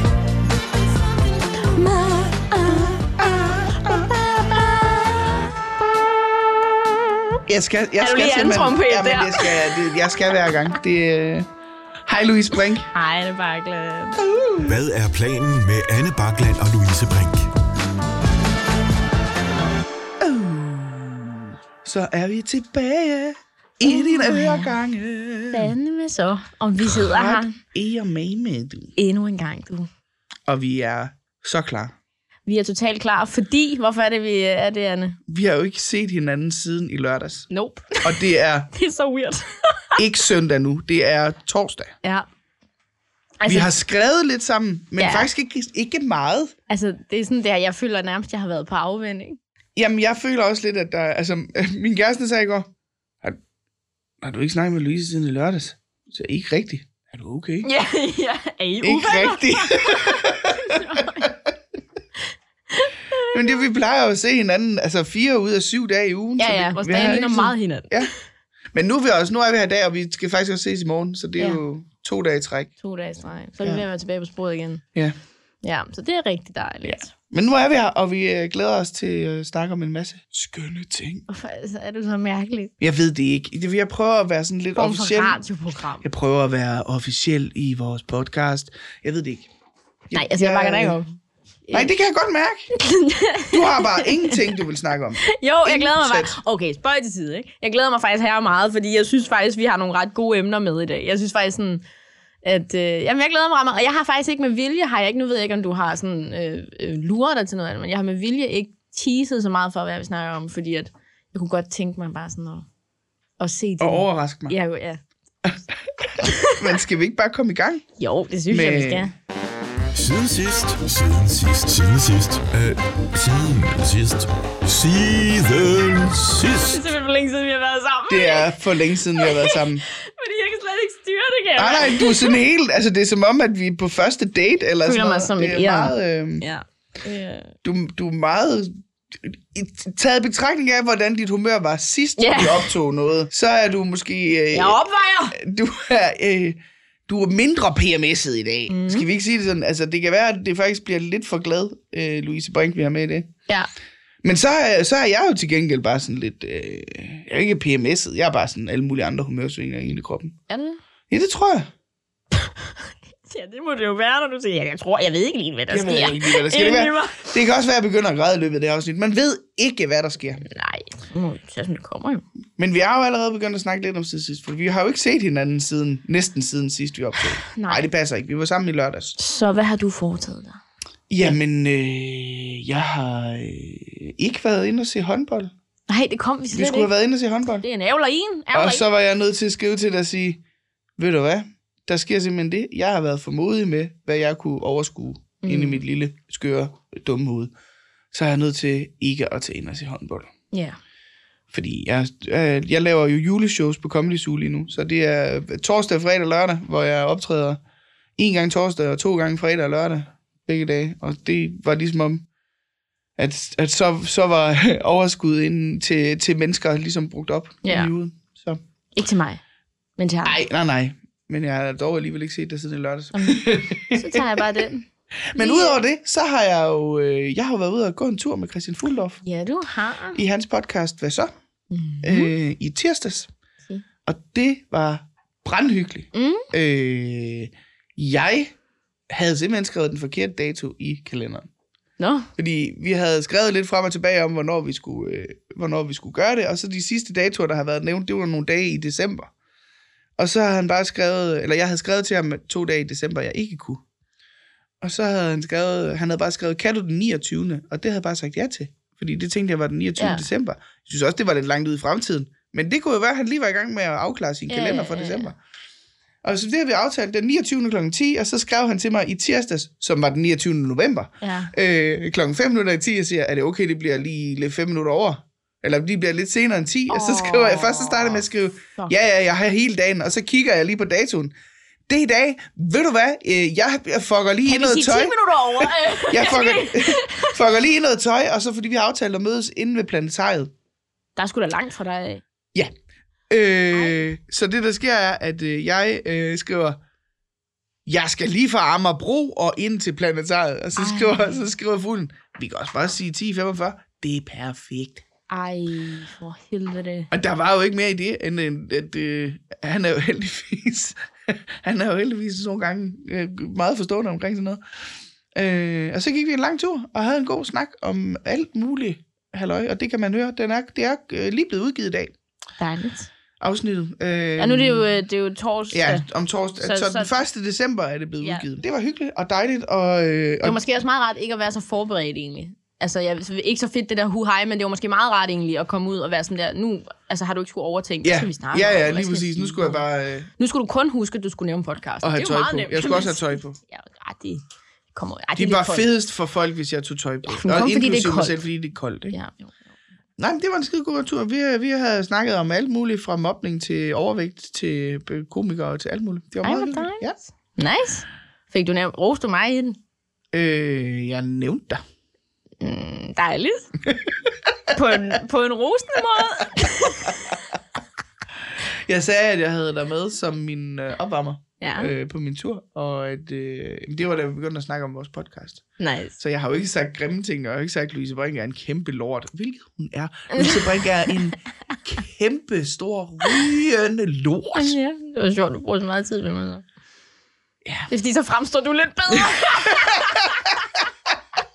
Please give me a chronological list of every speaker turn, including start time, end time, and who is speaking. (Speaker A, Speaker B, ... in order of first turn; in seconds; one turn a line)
Speaker A: 1.7-3.2
Speaker B: 3.2-4.1
Speaker A: 3.7-5.2
Speaker B: 7.5-11.5
Speaker A: 8.0-9.9
Speaker B: 12.1-12.9
Speaker A: 12.9-14.2
Speaker B: 14.2-14.8
Speaker C: 14.6-17.5
Speaker B: 20.2-25.7
Speaker A: 23.8-24.7
Speaker A: 25.5-27.6
Speaker B: 26.8-28.9
Speaker A: 29.0-29.9
Speaker B: 30.5-31.9
Speaker A: 32.5-35.2
Speaker B: 35.3-37.5
Speaker A: 37.5-40.0
Speaker B: 38.0-38.7
Speaker B: 40.0-41.9
Speaker A: 43.4-43.7
Speaker B: 43.5-46.5
Speaker A: 45.0-45.3
Speaker A: 46.7-49.4
Speaker B: 49.8-52.7
Speaker B: 54.2-57.7
Speaker A: 57.6-61.3
Speaker B: 58.8-61.5
Speaker A: 62.7-63.6
Speaker B: 63.3-68.1
Speaker A: 66.4-68.2
Speaker B: 68.7-72.7
Speaker A: 72.8-74.8
Speaker A: 75.6-77.1
Speaker B: 76.8-81.2
Speaker A: 81.3-82.7
Speaker B: 82.8-85.4
Speaker A: 84.7-86.1
Speaker B: 86.0-89.5
Speaker B: 90.1-91.0
Speaker A: 90.1-91.1
Speaker A: 91.7-91.9
Speaker B: 91.7-92.7
Speaker A: 92.7-94.5
Speaker B: 93.5-96.4
Speaker A: 95.2-101.8
Speaker A: 102.4-112.7
Speaker A: 113.4-115.0
Speaker B: 113.8-114.5
Speaker B: 116.0-117.8
Speaker A: 116.1-116.7
Speaker A: 118.0-119.1
Speaker B: 118.5-119.1
Speaker C: 119.9-126.8
Speaker A: 126.7-132.4
Speaker B: 128.1-129.8
Speaker B: 131.6-136.4
Speaker A: 134.8-137.5
Speaker B: 137.6-144.8
Speaker A: 142.2-142.7
Speaker A: 144.5-145.4
Speaker B: 145.3-153.3
Speaker A: 148.7-149.1
Speaker B: 154.2-160.3
Speaker A: 160.5-160.8
Speaker B: 161.1-161.7
Speaker A: 162.3-162.7
Speaker A: 163.2-167.3
Speaker B: 165.7-170.4
Speaker A: 170.5-172.2
Speaker B: 172.6-179.1
Speaker A: 177.5-177.9
Speaker A: 179.2-180.6
Speaker B: 181.1-185.5
Speaker A: 185.9-186.9
Speaker B: 186.5-187.6
Speaker A: 187.6-188.8
Speaker B: 188.5-190.4
Speaker B: 191.0-197.5
Speaker A: 195.4-195.8
Speaker B: 198.1-200.3
Speaker A: 200.5-200.8
Speaker B: 201.5-207.6
Speaker B: 208.2-212.2
Speaker B: 213.2-218.6
Speaker A: 217.6-217.9
Speaker A: 218.9-219.4
Speaker A: 220.0-220.4
Speaker B: 220.2-224.5
Speaker A: 223.1-224.8
Speaker B: 225.3-229.2
Speaker A: 225.4-225.8
Speaker A: 229.2-230.2
Speaker B: 230.1-231.3
Speaker A: 231.7-232.3
Speaker B: 232.0-233.3
Speaker B: 234.0-238.5
Speaker A: 236.1-236.5
Speaker B: 239.1-241.5
Speaker A: 242.0-242.3
Speaker B: 242.4-249.3
Speaker B: 250.2-253.8
Speaker B: 254.8-265.4
Speaker A: 260.0-260.2
Speaker A: 264.5-265.3
Speaker B: 266.2-281.3
Speaker A: 271.2-271.5
Speaker A: 276.9-278.2
Speaker B: 281.9-290.5
Speaker A: 284.4-287.4
Speaker A: 291.1-292.2
Speaker B: 293.3-296.8
Speaker B: 297.9-305.0
Speaker A: 300.8-301.4
Speaker A: 305.3-307.1
Speaker B: 307.1-314.6
Speaker B: 315.3-322.1
Speaker A: 322.6-323.1
Speaker B: 323.4-324.8
Speaker A: 324.4-326.0
Speaker B: 325.7-330.6
Speaker A: 326.6-327.2
Speaker A: 330.4-339.8
Speaker B: 338.0-340.3
Speaker A: 340.4-344.4
Speaker B: 342.0-343.6
Speaker A: 344.9-345.9
Speaker B: 345.3-349.2
Speaker A: 347.3-348.4
Speaker A: 349.1-349.5
Speaker B: 350.2-357.2
Speaker A: 356.4-359.8
Speaker B: 360.3-361.8
Speaker A: 362.6-363.7
Speaker B: 363.9-364.3
Speaker A: 364.7-367.3
Speaker B: 366.6-367.1
Speaker B: 368.9-375.6
Speaker A: 371.6-371.9
Speaker A: 375.8-376.2
Speaker B: 376.2-384.7
Speaker A: 380.3-381.3
Speaker A: 384.5-386.6
Speaker A: 387.9-390.6
Speaker B: 389.7-390.0